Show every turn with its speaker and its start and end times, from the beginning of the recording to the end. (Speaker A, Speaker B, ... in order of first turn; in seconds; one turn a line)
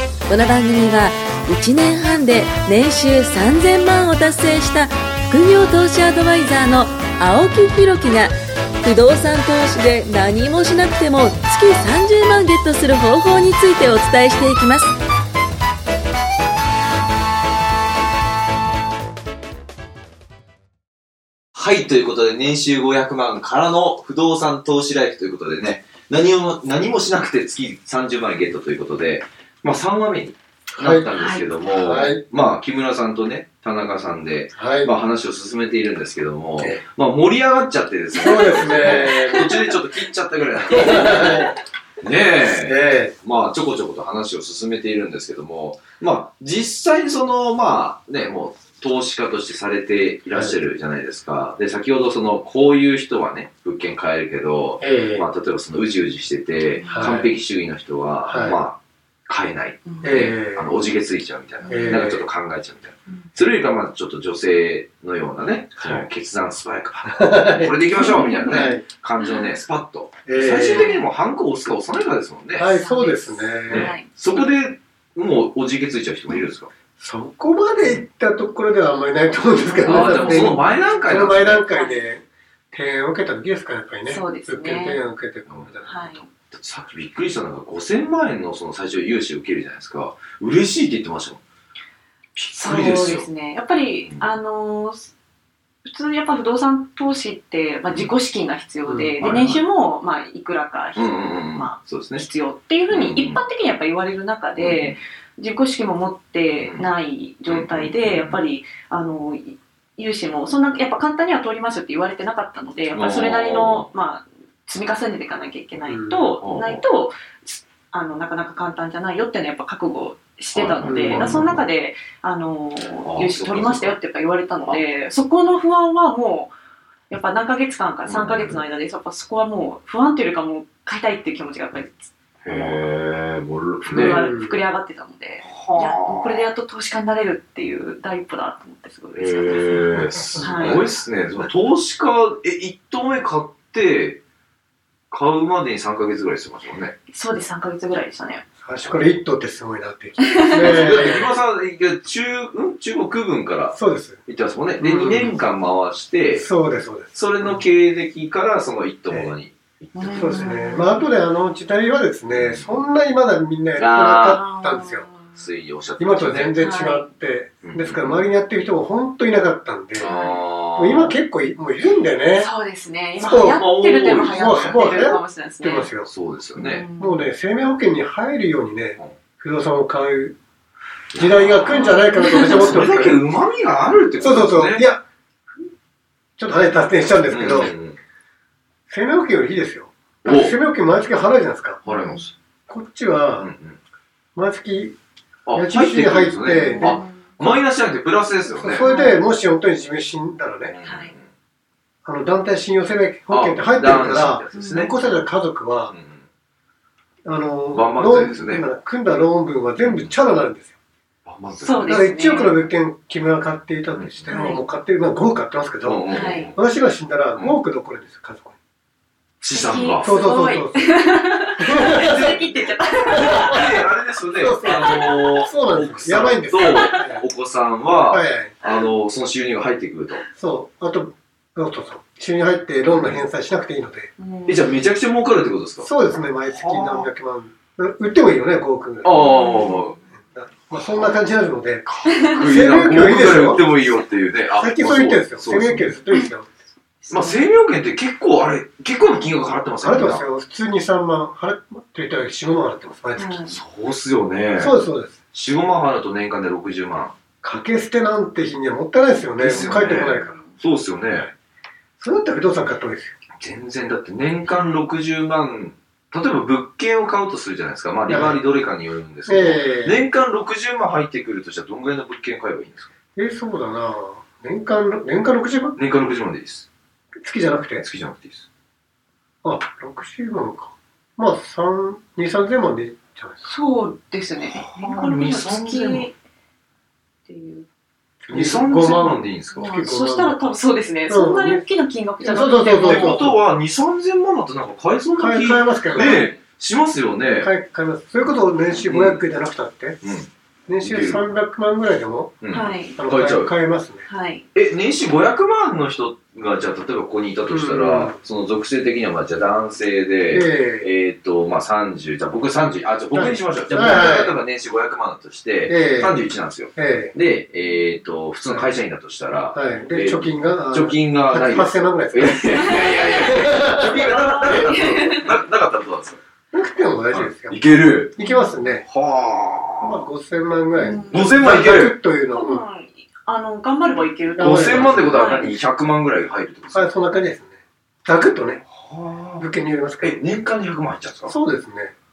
Speaker A: 0.3-14.9
Speaker B: 21.6-72.7
Speaker C: 30.8-31.1
Speaker D: 31.1-31.4
Speaker C: 31.7-32.2
Speaker C: 34.5-34.9
Speaker C: 38.1-39.8
Speaker C: 40.6-41.5
Speaker C: 42.5-43.1
Speaker C: 54.8-55.3
Speaker D: 56.8-57.3
Speaker C: 56.9-57.3
Speaker C: 58.2-58.6
Speaker D: 59.9-60.2
Speaker C: 60.0-60.7
Speaker D: 61.6-62.0
Speaker C: 61.7-62.2
Speaker C: 67.1-68.8
Speaker D: 68.0-69.5
Speaker C: 70.3-71.0
Speaker D: 70.5-71.1
Speaker C: 72.6-73.9
Speaker D: 72.6-74.4
Speaker B: 73.7-76.7
Speaker C: 77.0-86.2
Speaker D: 79.6-82.1
Speaker B: 79.8-81.6
Speaker D: 84.1-85.0
Speaker D: 85.8-86.2
Speaker B: 86.3-91.4
Speaker B: 92.3-93.3
Speaker D: 92.5-95.1
Speaker D: 95.8-126.5
Speaker B: 98.9-99.6
Speaker B: 101.0-102.2
Speaker B: 102.9-103.4
Speaker B: 104.6-105.0
Speaker B: 106.6-106.9
Speaker B: 107.5-108.4
Speaker B: 113.0-113.9
Speaker C: 115.8-116.3
Speaker B: 116.4-116.8
Speaker B: 120.5-121.7
Speaker C: 120.8-121.5
Speaker B: 123.0-123.9
Speaker D: 127.1-132.8
Speaker B: 128.1-128.6
Speaker B: 132.4-134.2
Speaker D: 133.8-140.9
Speaker C: 134.0-134.6
Speaker B: 135.4-136.4
Speaker B: 139.1-144.2
Speaker C: 140.0-140.8
Speaker B: 145.1-146.9
Speaker D: 147.1-148.4
Speaker C: 148.6-151.3
Speaker B: 148.8-149.1
Speaker D: 150.2-151.2
Speaker B: 150.6-156.5
Speaker C: 153.7-154.2
Speaker C: 154.8-155.3
Speaker C: 156.3-157.7
Speaker B: 157.1-160.9
Speaker C: 159.1-159.3
Speaker D: 159.9-161.1
Speaker C: 160.2-165.1
Speaker B: 162.3-162.8
Speaker B: 163.8-164.4
Speaker D: 164.3-165.3
Speaker B: 165.3-166.6
Speaker C: 166.0-170.1
Speaker D: 166.6-167.1
Speaker B: 167.6-168.3
Speaker B: 170.0-171.2
Speaker D: 170.0-170.4
Speaker C: 170.8-172.5
Speaker D: 172.4-175.9
Speaker C: 173.2-173.6
Speaker B: 173.6-174.8
Speaker C: 174.3-176.1
Speaker B: 176.1-176.9
Speaker D: 176.6-177.3
Speaker C: 177.0-180.4
Speaker B: 181.1-184.9
Speaker C: 181.2-183.2
Speaker D: 181.7-182.8
Speaker C: 184.2-185.0
Speaker C: 186.4-187.7
Speaker B: 187.3-188.0
Speaker C: 188.9-191.8
Speaker B: 190.2-190.6
Speaker B: 191.8-192.3
Speaker D: 191.9-192.3
Speaker C: 192.7-193.5
Speaker B: 193.4-193.8
Speaker C: 194.3-195.0
Speaker B: 195.5-198.9
Speaker C: 195.5-197.0
Speaker D: 196.6-197.4
Speaker C: 198.5-200.8
Speaker D: 198.8-199.3
Speaker B: 200.7-201.3
Speaker D: 200.8-201.1
Speaker C: 202.1-205.9
Speaker B: 203.3-205.2
Speaker D: 204.5-204.9
Speaker B: 205.9-206.2
Speaker C: 207.2-210.7
Speaker B: 207.7-208.7
Speaker B: 209.8-210.1
Speaker B: 211.3-212.1
Speaker D: 211.6-212.6
Speaker C: 211.9-218.6
Speaker B: 213.9-214.3
Speaker D: 214.3-214.6
Speaker B: 215.8-216.6
Speaker D: 216.1-216.5
Speaker B: 219.4-220.1
Speaker D: 219.5-223.8
Speaker C: 220.0-221.0
Speaker C: 221.6-222.4
Speaker B: 222.0-222.4
Speaker C: 223.1-223.6
Speaker B: 223.1-230.3
Speaker C: 224.4-227.2
Speaker D: 226.6-226.9
Speaker C: 228.1-228.6
Speaker C: 230.4-234.1
Speaker B: 232.8-233.2
Speaker D: 234.2-234.8
Speaker B: 234.5-237.1
Speaker C: 235.8-239.6
Speaker B: 239.0-240.0
Speaker D: 239.2-239.9
Speaker C: 240.2-243.7
Speaker B: 240.7-241.3
Speaker B: 241.9-246.0
Speaker D: 242.1-242.4
Speaker C: 244.5-246.5
Speaker D: 247.0-247.5
Speaker B: 247.1-250.2
Speaker C: 249.8-253.5
Speaker D: 253.2-253.6
Speaker B: 253.5-254.8
Speaker C: 254.6-255.2
Speaker B: 255.3-257.2
Speaker C: 257.4-260.4
Speaker B: 259.4-261.3
Speaker D: 259.6-260.6
Speaker C: 262.0-263.2
Speaker B: 263.4-272.9
Speaker D: 264.5-264.8
Speaker C: 268.1-268.4
Speaker C: 269.3-270.1
Speaker C: 273.2-275.8
Speaker B: 275.8-276.7
Speaker C: 277.2-277.9
Speaker B: 277.8-278.5
Speaker C: 279.4-283.5
Speaker D: 283.4-286.1
Speaker B: 284.4-286.1
Speaker D: 287.3-287.7
Speaker C: 288.2-290.4
Speaker B: 288.3-289.7
Speaker D: 289.5-293.3
Speaker C: 291.1-291.6
Speaker C: 292.2-293.4
Speaker B: 292.8-297.5
Speaker C: 295.2-296.3
Speaker D: 296.0-296.3
Speaker C: 297.4-300.0
Speaker B: 298.8-299.2
Speaker B: 300.0-301.2
Speaker C: 300.7-302.4
Speaker B: 302.4-303.5
Speaker D: 302.5-303.0
Speaker C: 302.9-304.1
Speaker D: 304.1-304.5
Speaker B: 304.5-326.2
Speaker C: 307.5-308.2
Speaker C: 310.3-310.9
Speaker C: 313.1-314.4
Speaker C: 315.7-316.2
Speaker C: 316.8-317.1
Speaker C: 319.5-324.8
Speaker D: 322.6-325.4
Speaker C: 326.5-327.6
Speaker B: 327.1-328.2
Speaker D: 328.2-328.6
Speaker C: 328.2-328.9
Speaker B: 328.8-330.1
Speaker C: 329.8-332.6
Speaker D: 330.8-331.4
Speaker B: 331.0-332.0
Speaker D: 332.3-335.6
Speaker C: 334.3-335.3
Speaker B: 334.4-336.9
Speaker C: 336.7-338.6
Speaker B: 338.7-339.5
Speaker C: 339.4-340.2
Speaker B: 340.0-341.4
Speaker C: 341.3-341.9